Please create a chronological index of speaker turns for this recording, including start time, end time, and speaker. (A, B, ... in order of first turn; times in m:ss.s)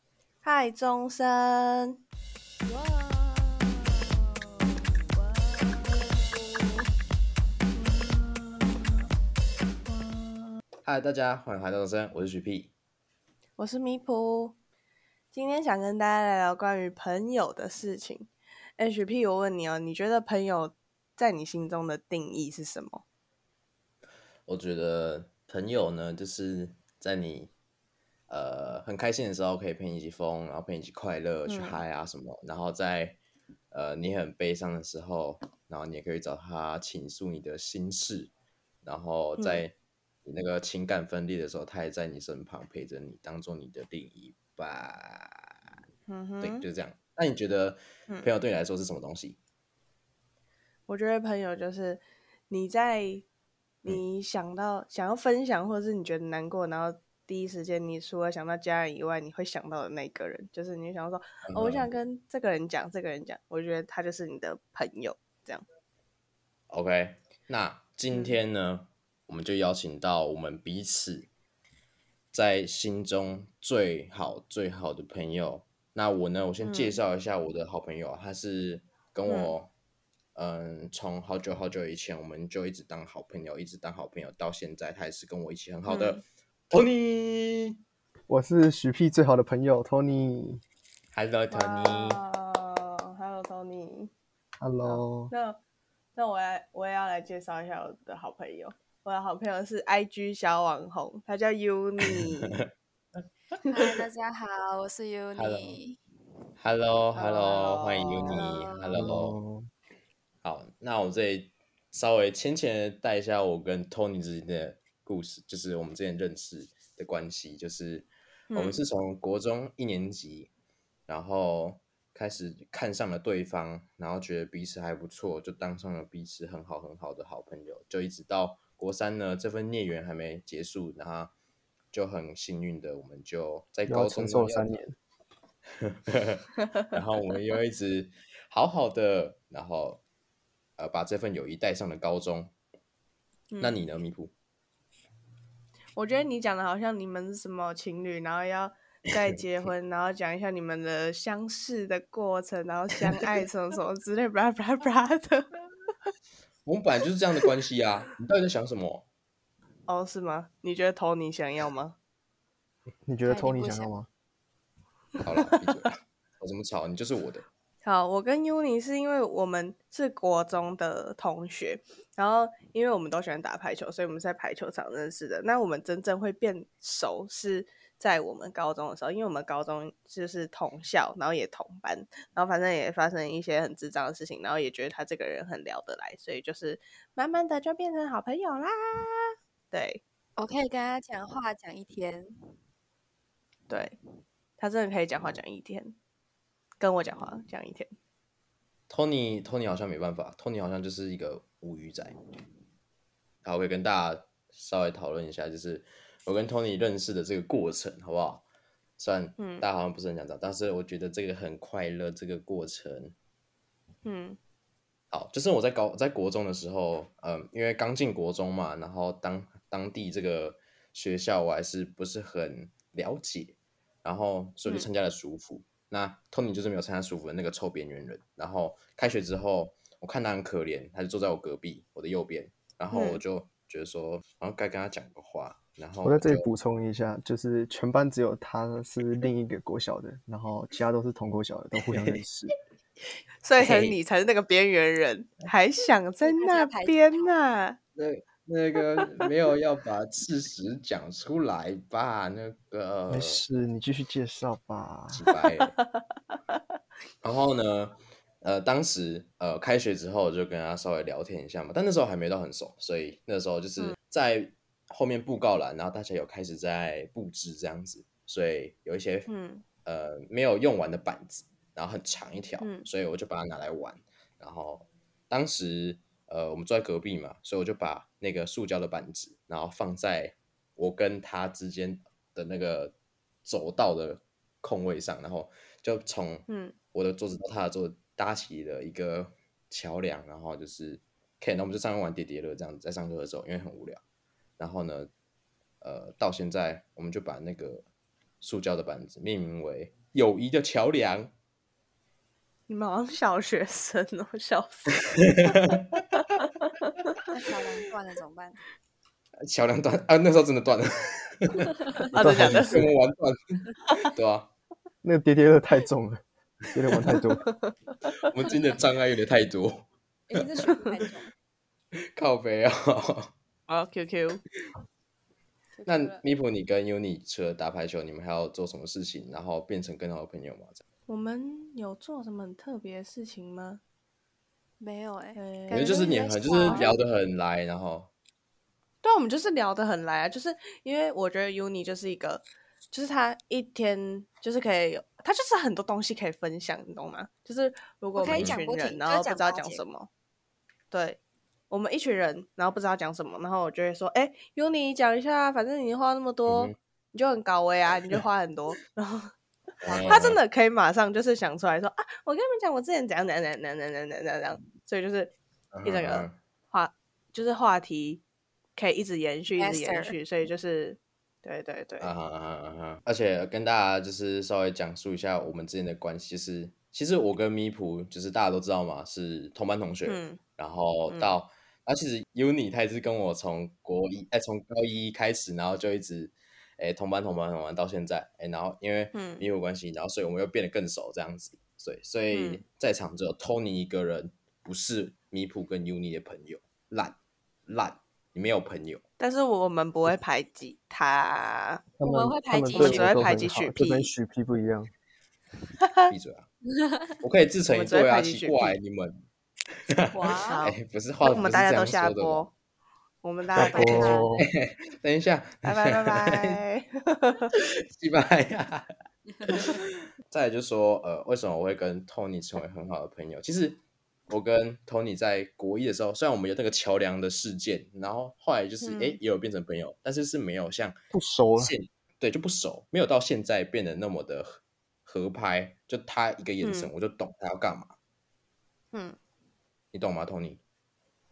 0:00.4-0:02.0 A
0:02.6-0:06.9 A
0:07.7-0:09.1 A
0:09.8-0:10.6 A
0:10.8-0:12.7 B
0:13.6-0:14.6 A
0:15.3-0:23.0 A
0:24.5-0:27.5 B
0:28.3-0:33.2 B
0:31.4-0:31.8 A
0:33.7-0:38.3 B
0:38.8-0:39.7 B
0:39.4-0:39.6 A
0:40.2-0:45.5 B
0:46.1-0:46.6 A
0:46.4-0:49.4 B
0:50.9-0:53.2 A
0:53.8-1:05.6 A
1:01.4-1:02.0 B
1:06.7-1:11.3 B
1:08.1-1:08.4 A
1:12.3-1:19.7 B
1:16.6-1:17.0 A
1:19.2-1:19.5 A
1:20.3-1:27.8 B
1:25.8-1:26.2 A
1:28.3-1:30.6 C
1:31.1-1:32.2 B
1:31.5-1:34.1 A
1:34.6-1:35.3 C
1:34.8-1:35.6 A
1:36.2-1:42.6 A
1:43.7-1:46.0 D
1:45.4-1:45.8 B
1:46.6-1:49.4 B
1:47.2-1:48.4 A
1:48.3-1:49.0 D
1:48.9-1:49.7 C
1:50.4-2:00.5 B
1:58.5-1:58.8 A
2:01.1-2:11.3 B
2:11.9-2:14.8 B
2:13.9-2:14.9 C
2:15.8-2:20.0 B
2:20.8-2:22.5 B
2:23.5-2:23.8 A
2:23.6-2:24.3 B
2:26.0-2:35.6 A
2:36.6-2:39.0 B
2:39.9-2:41.9 A
2:43.0-2:44.1 C
2:43.2-2:43.9 D
2:45.2-2:47.4 B
2:47.8-3:10.0 A
3:10.4-3:12.3 D
3:13.7-3:14.0 A
3:14.6-3:15.9 A
3:16.8-3:17.9 A
3:18.9-3:22.1 B
3:23.4-3:28.4 B
3:29.0-3:33.1 B
3:29.4-3:29.6 A
3:34.0-3:34.4 A
3:35.1-3:56.5 B
3:52.9-3:53.2 A
3:56.0-4:02.5 C
4:03.4-4:07.8 A
4:03.6-4:04.0 B
4:06.2-4:07.4 D
4:08.0-4:13.4 B
4:13.1-4:15.2 C
4:15.1-4:15.7 B
4:15.8-4:16.0 A
4:17.2-4:29.3 B
4:29.3-4:29.6 A
4:29.8-4:54.0 B
4:32.6-4:32.9 A
4:46.5-4:46.7 A
4:54.6-4:55.1 B
4:55.8-4:57.8 B
4:58.4-5:01.3 B
5:02.7-5:05.6 A
5:05.2-5:05.8 B
5:07.3-5:08.6 D
5:09.4-5:14.5 B
5:12.1-5:12.8 A
5:12.1-5:12.9 C
5:15.0-5:17.4 C
5:17.1-5:17.7 A
5:18.2-5:20.5 B
5:20.3-5:21.3 D
5:22.1-5:23.3 B
5:23.7-5:24.4 A
5:25.8-5:26.2 D
5:25.8-5:30.8 B
5:31.1-5:33.8 A
5:34.8-5:37.0 D
5:35.4-5:36.9 A
5:35.7-5:38.1 B
5:39.0-5:50.1 A
5:48.1-5:49.8 D
5:48.3-5:48.6 B
5:50.9-5:51.2 A
5:51.7-5:59.3 A
5:56.4-5:56.7 B
5:59.8-6:00.4 B
5:59.9-6:00.4 D
6:00.0-6:05.3 A
6:05.7-6:06.4 B
6:05.8-6:08.2 A
6:08.8-6:12.1 A
6:09.6-6:10.1 D
6:12.0-6:37.2 B
6:20.0-6:20.4 A
6:21.1-6:21.3 A
6:29.1-6:29.4 A
6:32.3-6:32.6 A
6:37.7-6:39.0 B
6:39.2-6:41.8 A
6:42.0-6:44.9 C
6:42.0-6:43.2 D
6:42.7-6:44.1 A
6:45.8-6:46.1 A
6:46.1-6:46.5 B
6:46.8-6:47.1 D
6:47.2-6:49.2 B
6:47.7-6:48.8 A
6:49.9-6:52.4 B
6:50.1-6:50.6 D
6:50.4-6:52.5 A
6:53.2-6:54.3 A
6:53.6-6:54.5 C
6:53.6-6:54.3 D
6:54.4-6:56.6 B
6:55.6-6:57.5 A
6:57.6-6:58.9 B
6:59.4-7:11.0 B
7:08.8-7:09.2 A
7:11.1-7:11.7 C
7:11.6-7:17.9 B
7:16.6-7:16.9 A
7:18.9-7:19.2 A
7:19.9-7:20.6 B